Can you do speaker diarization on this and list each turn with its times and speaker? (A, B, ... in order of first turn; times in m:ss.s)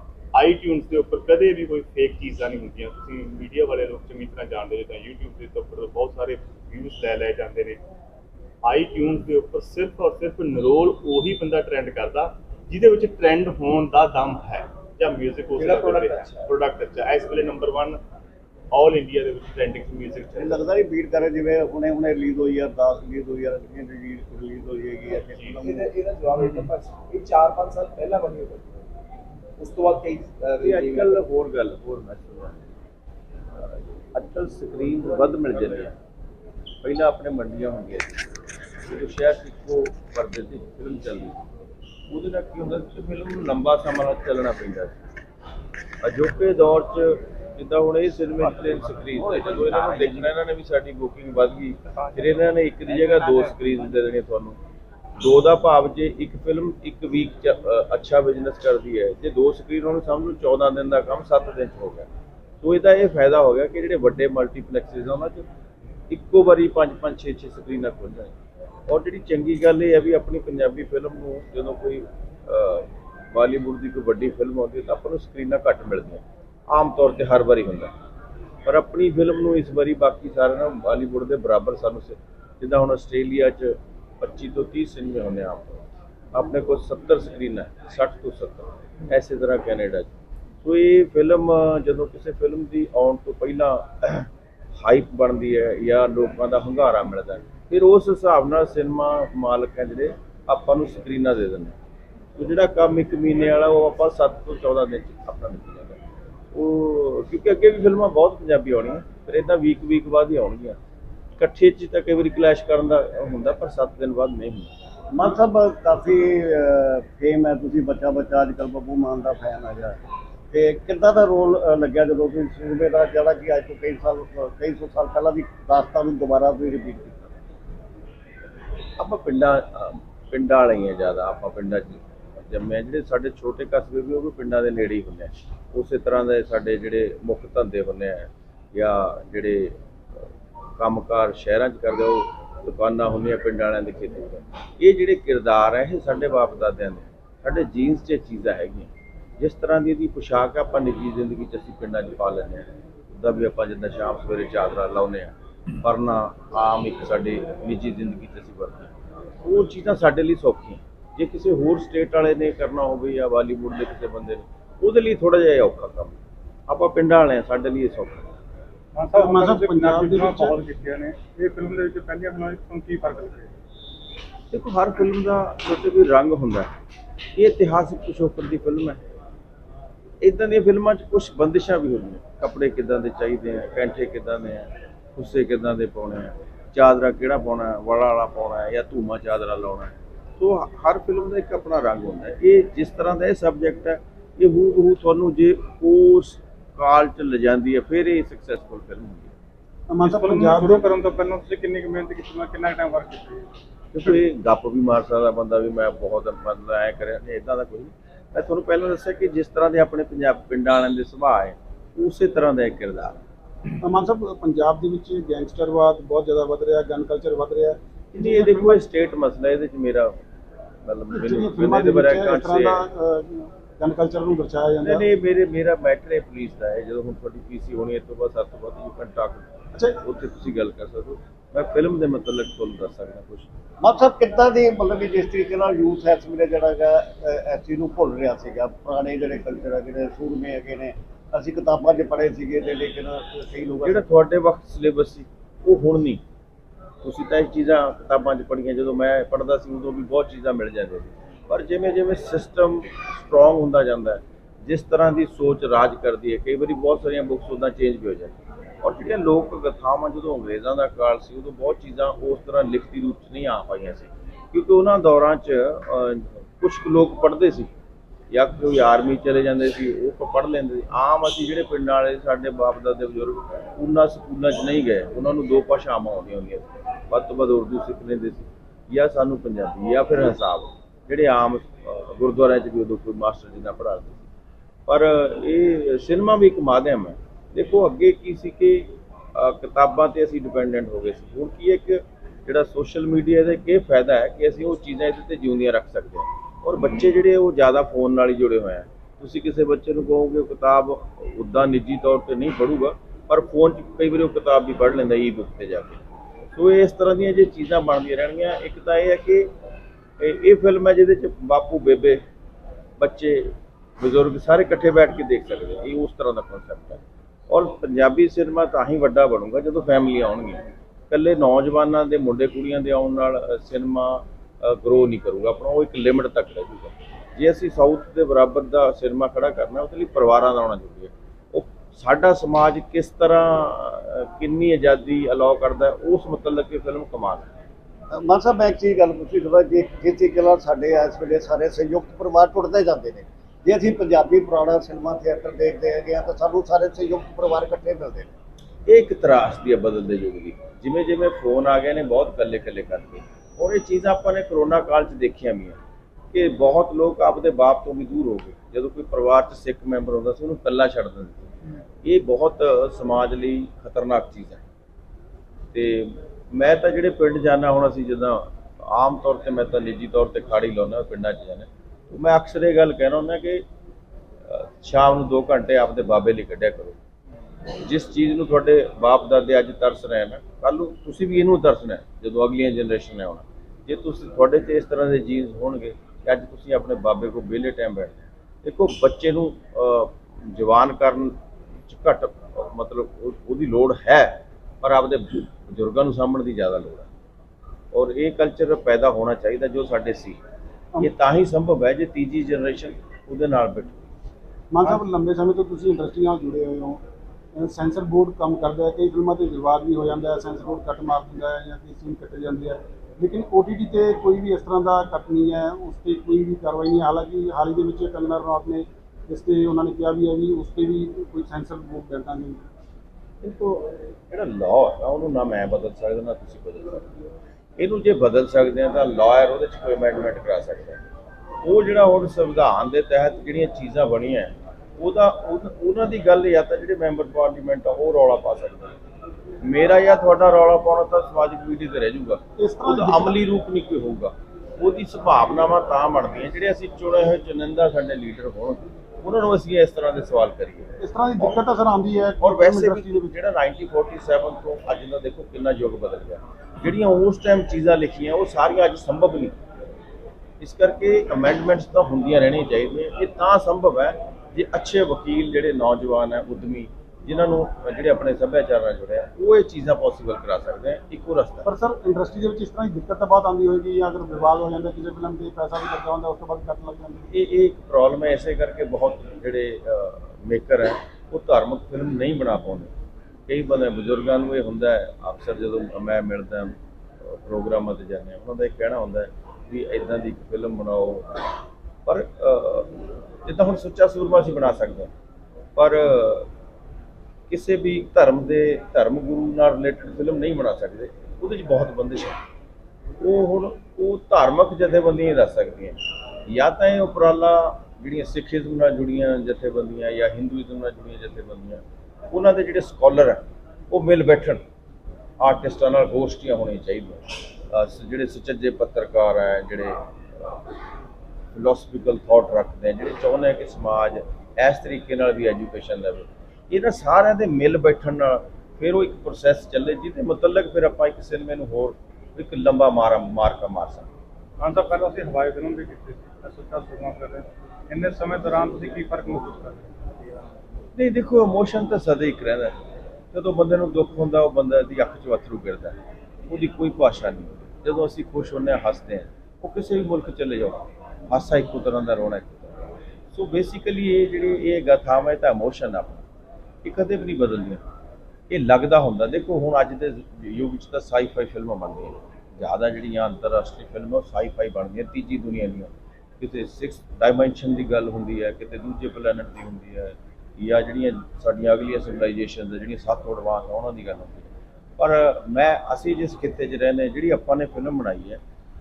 0:00.4-0:07.8 A
0:08.6-0:18.0 A
0:15.6-0:16.5 B
0:18.7-0:20.6 A
0:20.4-0:26.0 C
0:25.3-0:25.6 A
0:25.6-0:28.7 B
0:29.6-0:31.2 B
0:30.6-0:32.6 D
0:33.6-0:36.0 D
0:36.8-0:38.3 D
0:38.8-0:41.4 D
0:42.1-0:45.0 D
0:46.0-0:54.6 D
0:55.2-1:02.1 D
1:02.6-1:05.5 D
1:06.1-1:08.3 D
1:08.9-1:17.9 D
1:18.7-1:30.1 D
1:30.6-1:41.8 D
1:42.4-1:46.0 D
1:46.5-1:50.8 D
1:51.4-1:54.7 D
1:55.1-2:00.0 C
2:00.5-2:07.3 C
2:09.0-2:19.8 D
2:20.8-2:46.2 D
2:46.7-2:48.3 D
2:48.9-2:53.5 E
2:49.1-2:50.6 F
2:54.5-2:56.7 D
2:57.4-2:59.0 D
3:00.2-3:19.3 D
3:19.9-3:20.9 F
3:20.1-3:23.4 E
3:23.9-3:33.2 D
3:33.8-3:38.8 F
3:38.1-3:40.2 D
3:40.8-3:42.9 D
3:41.1-3:45.1 F
3:44.8-3:49.5 D
3:50.0-3:53.5 D
3:53.8-4:04.0 C
4:03.8-4:06.2 D
4:07.0-4:27.7 D
4:28.3-4:44.3 D
4:44.9-5:06.0 D
5:06.6-5:09.5 D
5:10.2-5:12.2 D
5:13.0-5:37.5 D
5:38.1-5:48.3 C
5:48.9-5:55.8 D
5:56.3-6:01.5 D
6:02.0-6:04.6 D
6:05.7-6:13.6 D
6:14.5-6:17.0 D
6:17.8-6:37.1 D
6:37.9-6:40.4 D
6:41.0-6:44.1 D
6:44.7-6:47.0 F
6:47.6-7:02.6 F
7:03.4-7:07.1 D
7:07.8-7:11.0 D
7:11.6-7:18.9 D
7:19.6-7:31.6 D
7:22.6-7:23.4 F
7:31.0-7:33.4 F
7:32.4-7:39.6 D
7:40.6-7:51.7 D
7:51.6-7:57.3 F
7:57.3-8:02.9 D
8:03.5-8:11.4 D
8:12.1-8:15.1 D
8:15.8-8:16.5 D
8:17.5-8:22.4 D
8:23.2-8:34.6 D
8:35.4-8:40.6 D
8:41.5-8:54.1 D
8:54.6-8:59.9 E
9:01.0-9:02.8 D
9:03.3-9:06.0 D
9:06.5-9:12.7 D
9:13.3-9:16.2 D
9:16.8-9:17.8 D
9:18.5-9:38.4 D